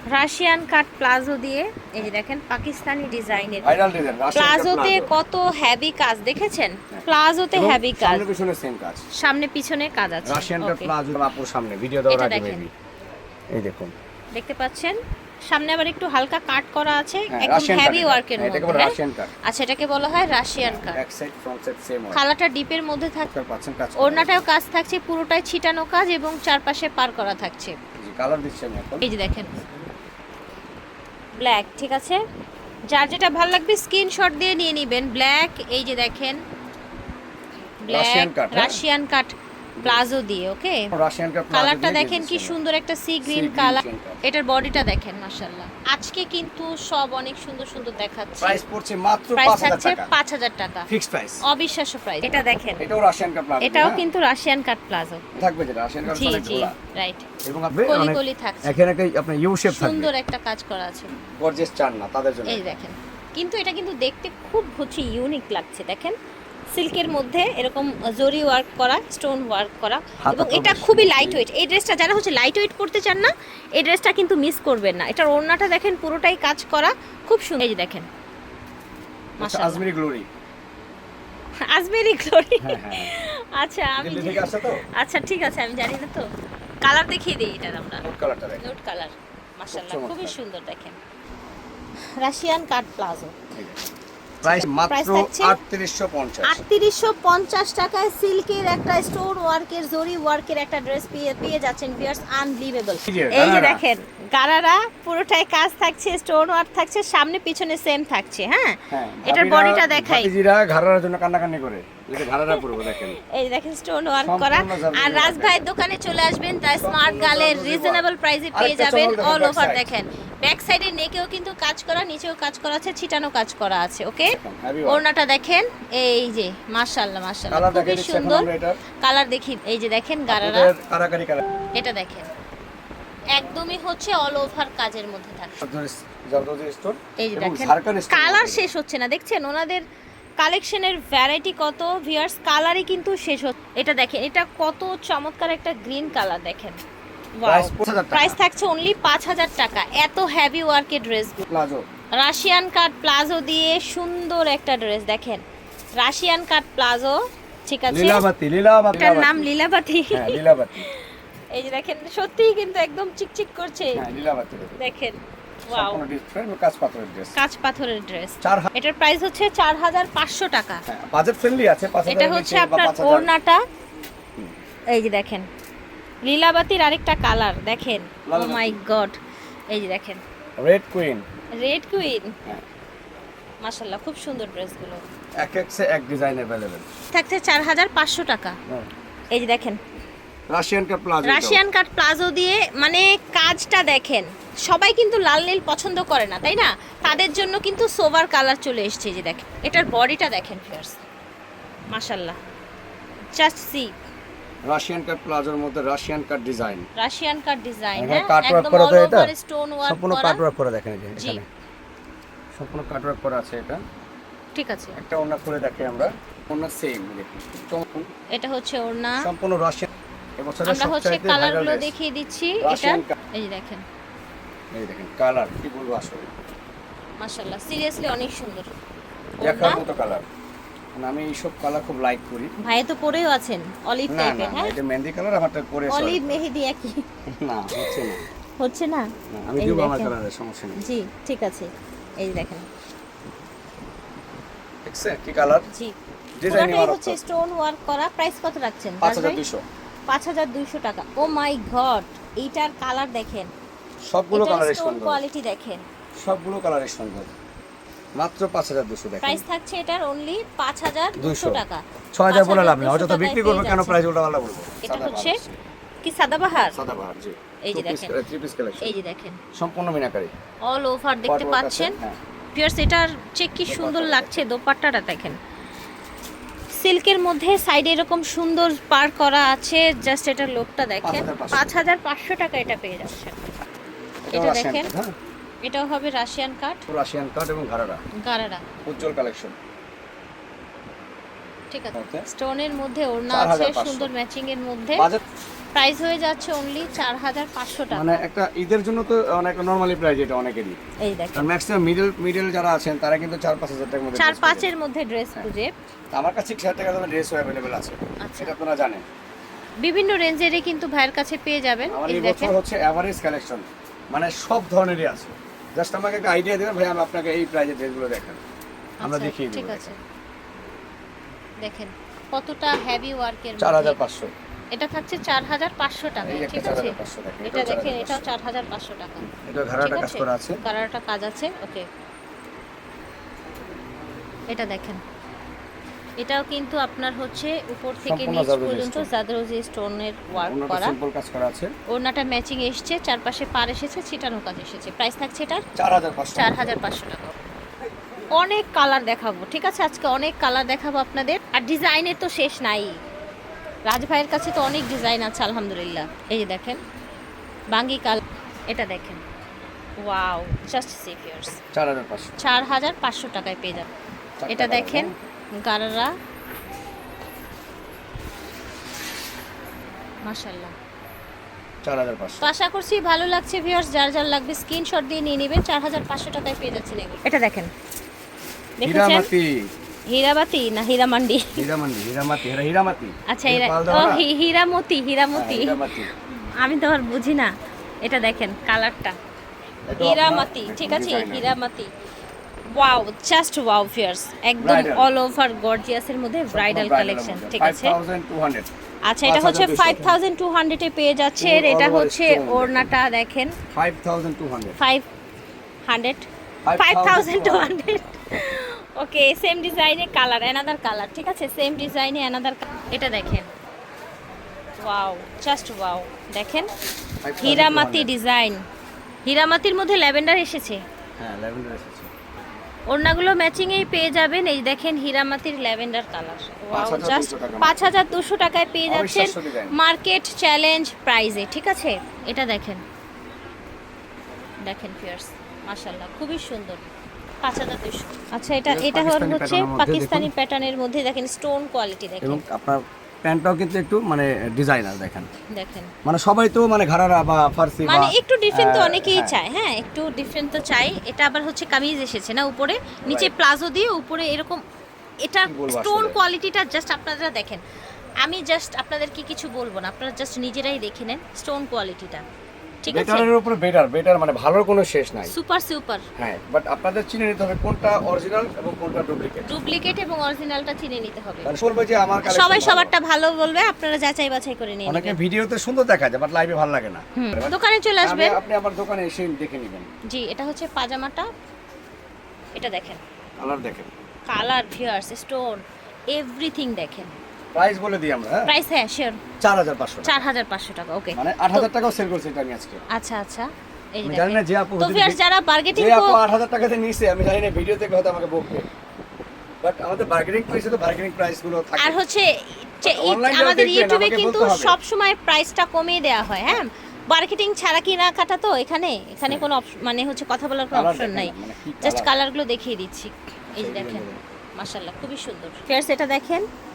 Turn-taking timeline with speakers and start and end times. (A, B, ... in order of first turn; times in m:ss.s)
0:00.1-0:03.8 A
0:03.6-0:05.1 B
0:04.3-0:08.3 A
0:07.6-0:09.0 B
0:09.2-0:10.9 A
0:10.2-0:12.7 B
0:12.1-0:12.6 A
0:13.5-0:13.9 B
0:14.3-0:21.0 A
0:17.3-0:19.3 B
0:20.6-0:22.2 B
0:22.1-0:23.3 A
0:23.3-0:24.4 B
0:24.0-0:27.8 A
0:28.0-0:29.1 B
0:29.0-0:29.6 A
0:31.4-0:32.2 A
0:32.9-0:36.4 A
0:37.8-0:40.9 A
0:37.9-0:38.8 B
0:40.9-0:42.6 B
0:41.5-0:48.6 A
0:43.2-0:44.2 B
0:48.4-0:50.1 B
0:49.4-0:50.9 A
0:50.9-0:51.4 B
0:51.4-0:52.8 A
0:52.8-0:54.1 B
0:53.6-0:55.2 A
0:55.3-0:56.8 B
0:56.1-0:57.3 A
0:57.4-1:00.1 B
0:57.8-0:58.8 A
0:59.7-1:01.1 A
1:01.4-1:02.7 B
1:02.5-1:06.2 A
1:06.7-1:18.1 A
1:10.2-1:11.4 B
1:19.4-1:19.8 A
1:19.4-1:20.3 B
1:21.6-1:26.3 A
1:22.6-1:23.1 B
1:24.0-1:24.8 B
1:26.8-1:28.0 A
1:28.0-1:28.6 B
1:28.6-1:31.0 A
1:29.7-1:30.4 B
1:32.2-1:33.4 A
1:33.5-1:33.8 B
1:34.4-1:35.6 A
1:34.4-1:36.6 B
1:36.4-1:50.3 A
1:43.1-1:43.9 B
1:48.9-1:53.2 B
1:52.5-2:08.5 A
1:54.2-1:55.6 B
1:56.8-1:59.9 B
2:04.3-2:05.0 B
2:07.5-2:08.8 B
2:09.0-2:10.7 A
2:10.3-2:11.5 B
2:11.7-2:12.3 A
2:13.3-2:15.6 A
2:15.6-2:18.7 B
2:17.2-2:19.8 A
2:20.4-2:26.8 A
2:27.4-2:31.4 A
2:27.4-2:28.4 B
2:31.4-2:31.8 B
2:32.2-2:35.4 A
2:36.0-2:38.2 A
2:37.9-2:39.5 B
2:39.0-2:44.1 A
2:40.1-2:40.9 B
2:44.0-2:44.8 B
2:44.8-2:46.0 A
2:45.7-2:47.4 B
2:47.4-2:50.8 A
2:48.4-2:48.7 B
2:50.9-2:53.3 B
2:52.0-2:53.6 A
2:54.9-2:55.5 A
2:56.2-2:59.2 A
2:58.3-2:58.8 B
2:59.7-3:00.2 A
3:00.6-3:01.3 B
3:01.6-3:02.4 A
3:03.6-3:05.0 A
3:05.4-3:06.8 B
3:07.1-3:08.6 A
3:09.3-3:09.8 A
3:10.5-3:11.6 B
3:11.2-3:21.0 A
3:21.9-3:22.4 A
3:23.4-3:24.0 A
3:24.6-3:26.9 B
3:27.0-3:30.4 A
3:28.0-3:29.3 B
3:29.8-3:31.5 B
3:31.2-3:31.4 A
3:32.6-3:33.8 B
3:34.6-3:35.0 A
3:35.0-3:38.1 B
3:38.3-3:39.3 A
3:39.2-3:41.9 B
3:40.6-3:43.8 A
3:42.6-3:43.2 B
3:44.7-3:46.3 B
3:47.2-3:48.7 A
3:49.4-3:49.8 A
3:49.4-3:50.3 B
3:51.0-3:52.5 B
3:52.6-3:54.7 A
3:54.1-3:56.4 B
3:55.9-3:57.0 A
3:57.3-3:58.2 B
3:57.7-4:00.1 A
3:59.3-4:00.8 B
4:00.8-4:01.7 A
4:02.2-4:02.7 A
4:04.8-4:05.7 B
4:06.4-4:07.2 B
4:06.5-4:09.4 A
4:09.0-4:09.6 B
4:10.1-4:13.5 A
4:14.1-4:15.2 B
4:14.3-4:15.8 A
4:16.2-4:17.3 B
4:18.2-4:19.4 B
4:19.2-4:24.0 A
4:21.2-4:21.6 B
4:22.1-4:25.6 B
4:24.8-4:25.4 A
4:26.0-4:26.8 A
4:26.7-4:29.0 B
4:27.6-4:28.2 A
4:28.8-4:29.4 A
4:29.6-4:30.3 B
4:30.6-4:32.0 A
4:31.3-4:32.2 B
4:32.6-4:35.4 A
4:33.7-4:34.4 B
4:36.8-4:43.5 A
4:41.0-4:41.7 B
4:44.3-4:45.1 B
4:44.3-4:44.9 A
4:45.6-4:46.8 A
4:46.9-4:48.0 B
4:48.2-4:48.6 A
4:48.8-4:49.6 B
4:51.7-4:55.1 A
4:51.9-4:52.3 B
4:53.3-4:54.1 B
4:55.0-4:55.2 B
4:55.8-4:58.2 A
4:57.9-5:00.8 B
5:01.0-5:01.5 A
5:01.4-5:04.7 B
5:04.2-5:05.7 A
5:06.1-5:09.0 B
5:08.2-5:08.5 A
5:09.8-5:12.6 A
5:11.9-5:18.4 B
5:19.0-5:20.0 A
5:19.0-5:19.9 B
5:21.6-5:24.0 A
5:23.6-5:24.3 B
5:24.7-5:29.3 A
5:26.2-5:28.3 B
5:29.3-5:30.6 B
5:29.8-5:31.9 A
5:34.5-5:35.0 A
5:36.2-5:41.0 A
5:38.0-5:39.1 B
5:40.3-5:41.7 B
5:41.9-5:45.6 A
5:45.8-5:46.7 B
5:46.4-5:47.4 A
5:48.3-5:53.0 A
5:53.9-5:56.8 A
5:57.7-5:59.2 A
6:00.0-6:01.6 A
6:01.7-6:02.4 B
6:02.4-6:03.9 A
6:04.4-6:05.2 B
6:04.5-6:06.1 A
6:10.3-6:10.7 A
6:11.8-6:12.5 B
6:12.4-6:17.7 A
6:18.8-6:19.3 A
6:18.8-6:19.7 B
6:20.1-6:21.6 A
6:21.6-6:24.3 B
6:23.3-6:27.5 A
6:25.3-6:26.1 B
6:28.0-6:29.2 A
6:29.9-6:31.5 B
6:30.0-6:31.9 A
6:32.7-6:38.0 A
6:34.6-6:35.1 B
6:36.5-6:38.7 B
6:39.1-6:43.6 A
6:39.2-6:40.2 B
6:41.4-6:42.9 B
6:43.7-6:44.8 B
6:44.8-6:45.1 A
6:45.9-6:53.5 A
6:46.6-6:47.7 B
6:54.8-6:56.7 A
6:57.2-6:58.1 B
6:57.4-6:58.6 A
6:59.3-7:00.8 A
7:01.2-7:02.1 B
7:02.9-7:12.8 A
7:06.7-7:07.9 B
7:08.9-7:09.8 B
7:14.6-7:16.9 A
7:17.4-7:22.4 A
7:18.7-7:20.3 B
7:22.2-7:25.3 B
7:25.5-7:25.9 A
7:26.0-7:29.4 B
7:27.8-7:34.6 A
7:33.1-7:33.3 B
7:35.2-7:37.6 A
7:35.5-7:36.2 B
7:38.2-7:42.2 A
7:42.8-7:43.3 A
7:42.9-7:45.3 B
7:45.3-7:46.0 A
7:46.2-7:49.5 B
7:49.5-7:51.5 A
7:51.4-7:53.0 B
7:52.2-7:55.2 A
7:54.9-7:59.9 B
7:57.2-7:58.4 A
8:00.1-8:01.3 A
8:02.6-8:03.0 A
8:03.4-8:03.9 B
8:04.3-8:07.2 A
8:07.6-8:08.5 B
8:08.5-8:09.2 A
8:09.4-8:10.2 B
8:10.0-8:11.7 A
8:11.2-8:12.8 B
8:12.9-8:16.2 A
8:14.0-8:15.2 B
8:15.7-8:18.7 B
8:19.6-8:22.0 B
8:21.8-8:34.1 A
8:22.8-8:24.8 B
8:30.7-8:32.1 B
8:33.6-8:34.2 B
8:34.6-8:36.5 A